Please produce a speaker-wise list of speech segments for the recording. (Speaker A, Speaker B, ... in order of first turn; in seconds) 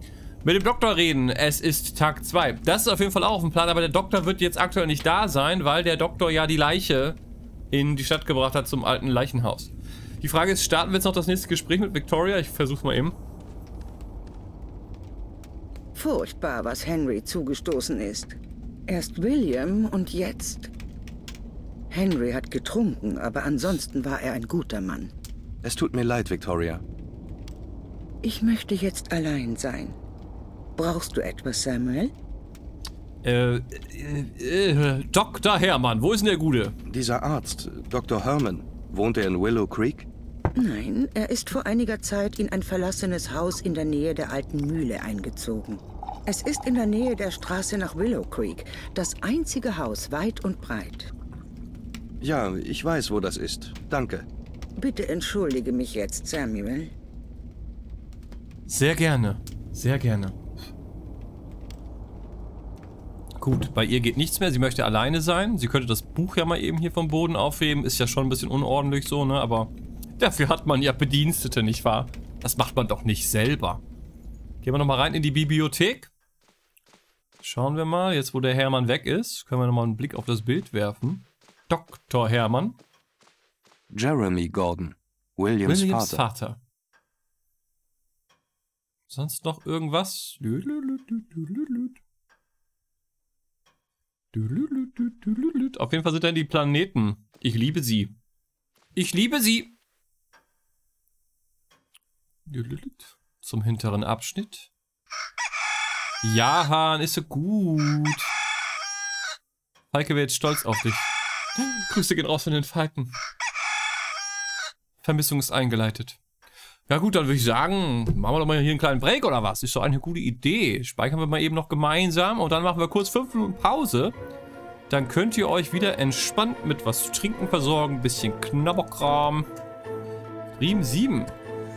Speaker A: 0.4-7.2, 7.7-13.2, 33.2-36.8, 58.7-60.4, 63.4-73.8, 74.6-76.1, 77.4-82.8, 85.6-86.6, 89.1-92.0, 94.3-98.1, 98.9-99.7, 102.5-104.7, 106.2-108.3, 109.9-113.1, 115.0-116.2, 116.9-124.1, 124.9-129.5, 130.6-131.3
Speaker B: 15.9-18.4, 18.9-20.7, 21.9-25.1, 28.2-30.0, 30.8-32.1, 40.5-51.1, 54.8-56.9
Speaker C: 25.6-26.8, 36.9-40.1, 52.2-54.3, 83.9-86.2